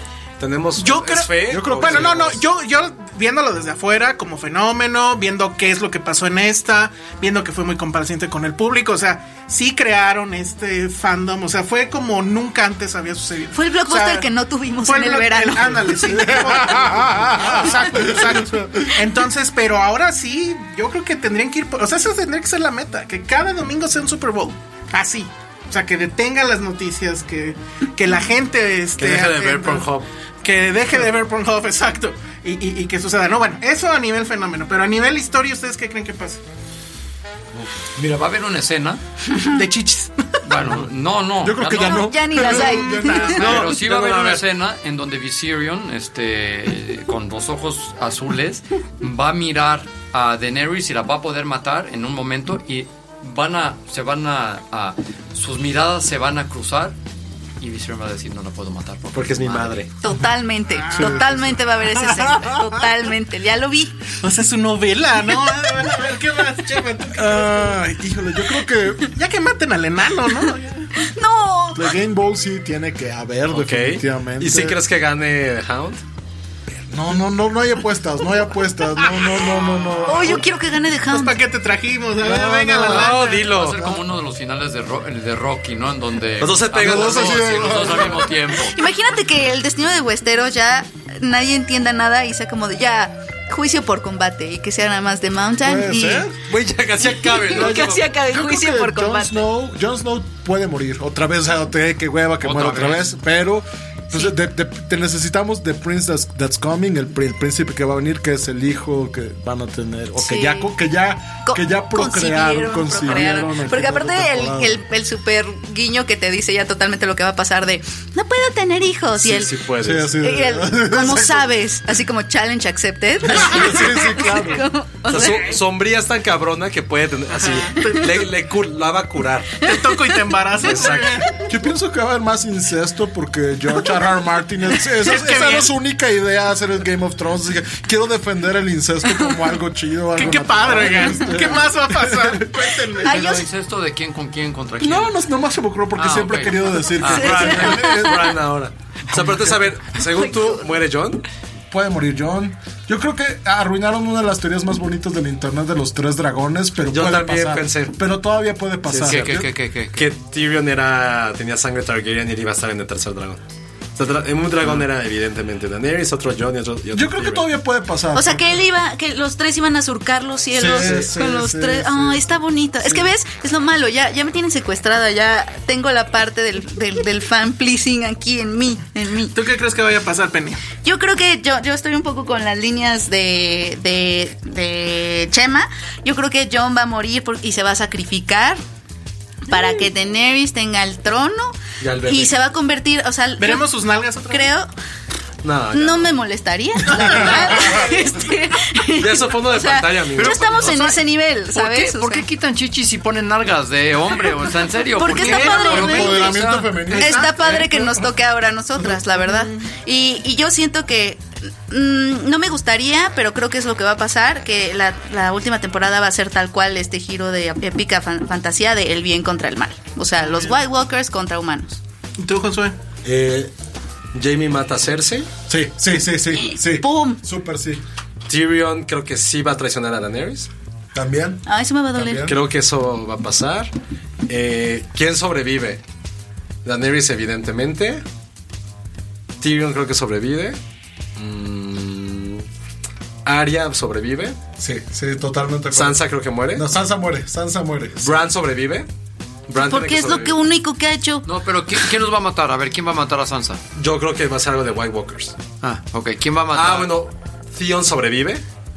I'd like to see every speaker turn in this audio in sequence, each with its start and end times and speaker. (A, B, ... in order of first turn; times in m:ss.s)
0:00.4-0:02.4 A
0:00.8-0:29.9 B
0:01.5-0:02.4 C
0:13.5-0:16.4 D
0:16.1-0:18.9 C
0:29.0-0:30.1 A
0:30.4-0:36.4 B
0:37.9-0:39.0 E
0:39.5-0:40.4 B
0:40.4-0:42.5 E
0:40.6-0:40.9 C
0:41.4-0:43.6 C
0:41.7-0:43.4 D
0:42.4-0:43.4 B
0:43.2-0:44.4 A
0:43.3-0:57.0 E
0:57.6-0:59.8 E
0:59.1-0:59.9 A
1:00.0-1:04.1 D
1:00.7-1:02.6 B
1:00.9-1:01.5 C
1:04.2-1:07.6 B
1:07.1-1:09.1 C
1:09.1-1:10.9 B
1:11.0-1:12.0 D
1:11.7-1:14.8 C
1:13.5-1:16.0 A
1:16.9-1:20.4 C
1:20.0-1:21.4 D
1:20.1-1:20.4 B
1:21.1-1:23.3 B
1:22.2-1:23.2 C
1:22.8-1:23.8 A
1:22.9-1:28.8 E
1:26.4-1:27.5 A
1:26.8-1:28.4 C
1:28.5-1:36.3 D
1:35.6-1:36.3 C
1:36.4-1:38.1 A
1:37.0-1:39.4 D
1:37.5-1:54.8 C
1:42.4-1:43.1 E
1:50.2-1:50.7 D
1:51.4-1:59.5 D
1:59.2-2:00.1 A
1:59.8-2:01.5 C
2:00.2-2:05.6 D
2:03.2-2:04.7 C
2:03.3-2:04.0 A
2:05.1-2:09.6 A
2:07.4-2:08.0 B
2:09.6-2:11.4 B
2:09.6-2:10.3 D
2:10.6-2:11.2 A
2:11.5-2:23.3 C
2:14.8-2:15.7 B
2:20.1-2:23.4 B
2:23.0-2:25.2 E
2:24.8-2:28.4 C
2:25.9-2:27.8 E
2:27.1-2:31.2 A
2:27.1-2:27.8 D
2:29.1-2:29.8 C
2:30.2-2:30.6 D
2:31.7-2:39.4 C
2:36.8-2:38.0 A
2:38.9-2:43.4 A
2:39.0-2:40.1 E
2:44.0-2:47.5 A
2:46.9-2:48.6 C
2:48.1-2:59.4 D
2:50.5-2:52.3 C
2:50.8-2:51.1 A
2:52.8-2:53.1 C
2:59.3-3:00.6 B
3:00.8-3:08.6 D
3:09.5-3:13.7 D
3:11.8-3:12.4 A
3:13.4-3:14.5 B
3:14.3-3:14.7 D
3:15.4-3:16.1 A
3:15.7-3:22.2 D
3:16.9-3:18.1 B
3:17.0-3:17.5 C
3:19.0-3:20.5 A
3:20.5-3:26.9 E
3:25.0-3:26.3 D
3:25.0-3:26.3 B
3:25.7-3:28.1 C
3:26.8-3:27.7 B
3:27.0-3:41.8 D
3:29.2-3:29.7 B
3:40.2-3:40.6 B
3:42.2-3:42.8 B
3:43.0-3:43.5 A
3:44.1-3:45.3 A
3:45.5-3:47.8 C
3:46.5-3:47.2 D
3:48.3-3:50.5 A
3:50.9-3:52.4 C
3:51.5-3:52.3 D
3:52.2-3:53.7 A
3:54.3-3:55.8 A
3:56.6-3:58.0 A
3:59.4-4:00.6 A
4:01.2-4:02.4 A
4:03.2-4:04.4 A
4:04.6-4:06.0 C
4:05.7-4:06.6 A
4:06.5-4:08.2 C
4:08.0-4:08.9 A
4:09.5-4:10.4 A
4:09.6-4:11.2 D
4:11.2-4:13.6 E
4:13.7-4:15.4 A
4:15.6-4:16.9 E
4:16.5-4:18.4 A